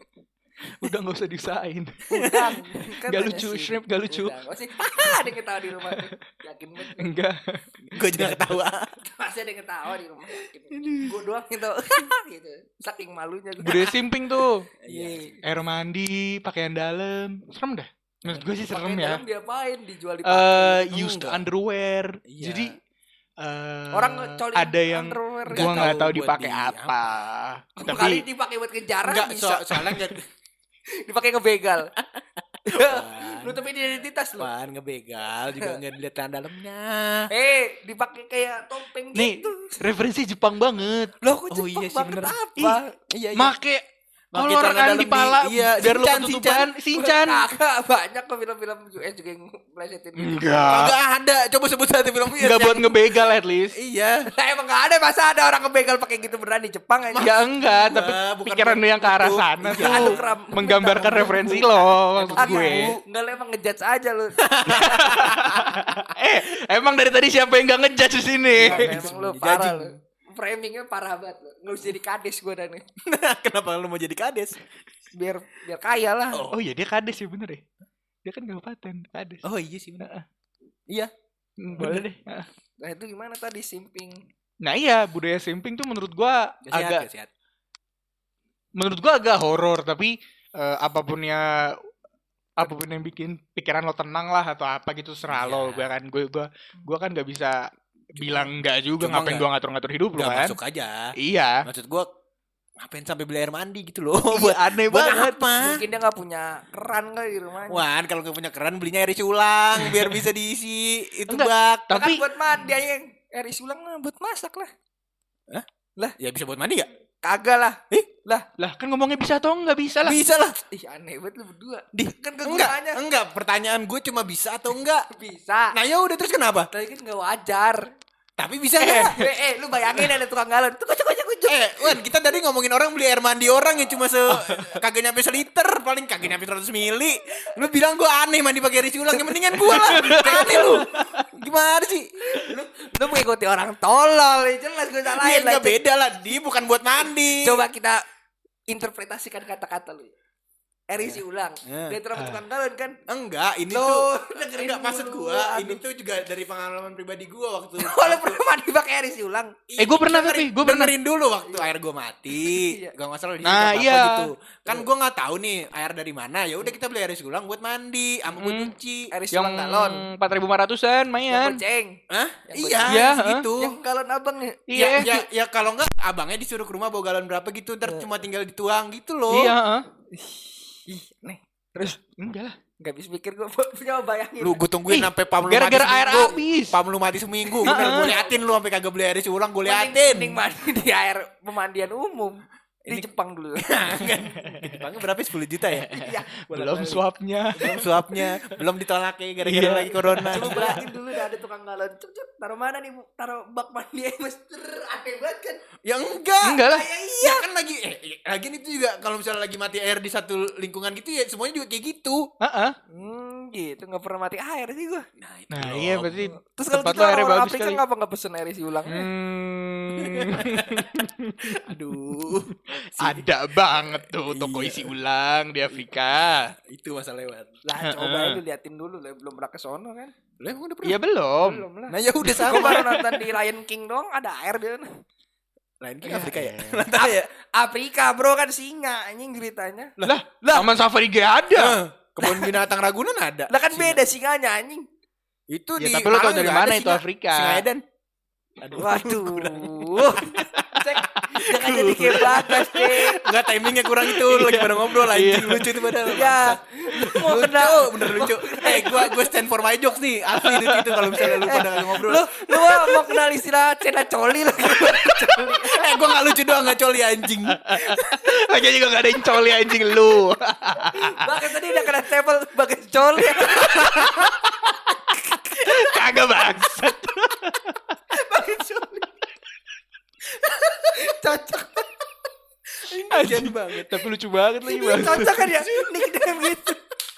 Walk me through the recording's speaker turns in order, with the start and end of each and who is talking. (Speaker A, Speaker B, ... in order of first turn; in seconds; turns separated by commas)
Speaker A: 0.8-2.5, Speaker B: 2.1-2.6, Speaker C: 2.2-7.1, Speaker A: 3.1-5.3, Speaker A: 5.8-6.1, Speaker A: 6.8-8.6, Speaker B: 7.9-8.9, Speaker C: 9.0-14.0, Speaker A: 10.7-11.2, Speaker A: 13.6-14.7, Speaker B: 14.8-15.3, Speaker C: 14.9-15.4, Speaker A: 15.4-19.2, Speaker C: 18.7-20.9, Speaker A: 20.2-22.8, Speaker B: 20.9-21.4, Speaker B: 22.3-22.8, Speaker A: 23.4-28.2, Speaker C: 23.9-25.9, Speaker B: 25.5-27.0, Speaker C: 27.8-30.0, Speaker B: 29.0-30.2, Speaker C: 31.0-31.9, Speaker B: 32.7-33.6, Speaker C: 32.7-34.5, Speaker B: 34.4-37.3, Speaker C: 37.3-39.8, Speaker A: 39.1-41.1, Speaker C: 41.2-42.9, Speaker B: 41.5-43.5, Speaker A: 43.4-43.8, Speaker B: 44.3-46.7, Speaker A: 44.4-47.5, Speaker C: 46.9-50.8, Speaker A: 50.2-51.0, Speaker B: 50.6-53.0, Speaker A: 52.4-53.8, Speaker B: 53.8-54.3, Speaker C: 54.3-57.3, Speaker B: 57.1-60.2, Speaker A: 57.2-62.9, Speaker C: 59.7-61.7, Speaker B: 61.0-63.0, Speaker C: 62.3-64.5, Speaker B: 64.4-66.1, Speaker A: 64.7-69.0, Speaker B: 68.5-70.0, Speaker C: 68.6-72.8, Speaker B: 73.1-74.6, Speaker C: 75.2-76.5, Speaker B: 76.3-76.6, Speaker A: 76.5-77.6, Speaker A: 78.2-79.4, Speaker B: 79.4-80.1, Speaker A: 81.6-82.5, Speaker C: 82.8-84.2, Speaker A: 84.6-87.1, Speaker B: 86.6-87.3, Speaker A: 88.8-91.8, Speaker A: 92.6-100.6, Speaker B: 95.3-95.9, Speaker B: 98.2-99.5, Speaker B: 100.2-101.1, Speaker A: 101.2-101.6, Speaker B: 101.6-102.1, Speaker B: 102.8-105.8, Speaker A: 104.3-105.4, Speaker C: 105.6-107.8, Speaker B: 107.7-112.0, Speaker A: 109.8-110.2, Speaker A: 111.3-112.2, Speaker C: 111.9-114.7, Speaker B: 116.2-116.9, Speaker C: 117.2-118.5, Speaker A: 118.6-120.2, Speaker B: 120.0-120.6, Speaker C: 120.7-123.0, Speaker B: 122.0-125.1, Speaker C: 125.1-125.8, Speaker B: 125.7-126.7, Speaker C: 126.7-127.8, Speaker B: 128.4-129.3, Speaker A: 128.8-129.1, Speaker C: 129.0-132.0, Speaker B: 131.5-142.7, Speaker A: 134.3-134.8, Speaker A: 139.7-141.2, Speaker C: 140.1-140.8, Speaker C: 142.3-145.8, Speaker B: 145.1-147.6, Speaker C: 147.3-148.0, Speaker C: 148.7-150.1, Speaker C: 150.9-153.0, Speaker B: 151.0-152.0, Speaker B: 153.1-158.4, Speaker C: 153.7-155.8, Speaker C: 157.8-159.5, Speaker B: 159.7-169.1, Speaker A: 159.8-160.9, Speaker C: 162.4-162.9, Speaker A: 163.4-164.3, Speaker A: 168.4-168.7, Speaker C: 169.1-170.1, Speaker A: 169.3-171.6, Speaker C: 171.3-173.1, Speaker B: 172.1-173.8, Speaker A: 172.9-173.5, Speaker C: 173.6-174.7, Speaker A: 174.7-175.2, Speaker B: 174.8-179.6, Speaker A: 179.3-179.9, Speaker C: 180.1-182.0, Speaker A: 182.2-182.6, Speaker C: 182.8-184.6, Speaker B: 184.4-190.4, Speaker A: 184.9-186.8, Speaker C: 187.6-188.4, Speaker A: 187.7-188.1, Speaker C: 189.6-193.8, Speaker B: 192.8-196.0, Speaker A: 194.3-194.8, Speaker A: 195.7-198.2, Speaker C: 195.9-197.0, Speaker C: 197.6-197.9, Speaker B: 197.7-200.9, Speaker A: 199.4-200.8, Speaker C: 199.7-205.6, Speaker B: 205.8-206.7, Speaker A: 206.4-206.8, Speaker C: 206.7-207.5, Speaker B: 207.2-212.2, Speaker A: 212.4-212.8, Speaker C: 212.9-215.1, Speaker B: 215.2-216.2, Speaker A: 215.5-217.8, Speaker C: 216.3-219.1, Speaker A: 218.9-222.4, Speaker B: 220.0-224.9, Speaker A: 223.0-226.5, Speaker B: 226.7-227.6, Speaker C: 227.7-230.1, Speaker A: 227.8-228.4, Speaker B: 230.4-231.0, Speaker A: 230.8-231.7, Speaker C: 231.4-234.9, Speaker B: 231.9-233.0, Speaker A: 232.3-233.1, Speaker B: 235.8-237.3, Speaker A: 236.0-236.8, Speaker C: 236.9-240.0, Speaker B: 240.0-240.7, Speaker A: 240.0-241.8, Speaker B: 241.6-244.0, Speaker C: 242.2-242.6, Speaker C: 243.5-244.8, Speaker B: 245.5-247.8, Speaker A: 245.8-247.7, Speaker B: 248.6-250.5, Speaker C: 248.8-253.2, Speaker A: 250.3-251.3, Speaker B: 251.3-263.2, Speaker A: 252.0-253.1, Speaker A: 253.7-255.9, Speaker C: 256.0-259.3, Speaker A: 260.3-261.6, Speaker C: 261.2-265.8, Speaker B: 264.6-268.0, Speaker A: 267.5-271.3, Speaker C: 271.2-274.3, Speaker A: 273.4-277.9, Speaker C: 278.1-279.1, Speaker C: 280.3-282.1, Speaker B: 282.8-284.1, Speaker A: 283.1-285.4, Speaker C: 284.7-286.8, Speaker B: 285.0-286.6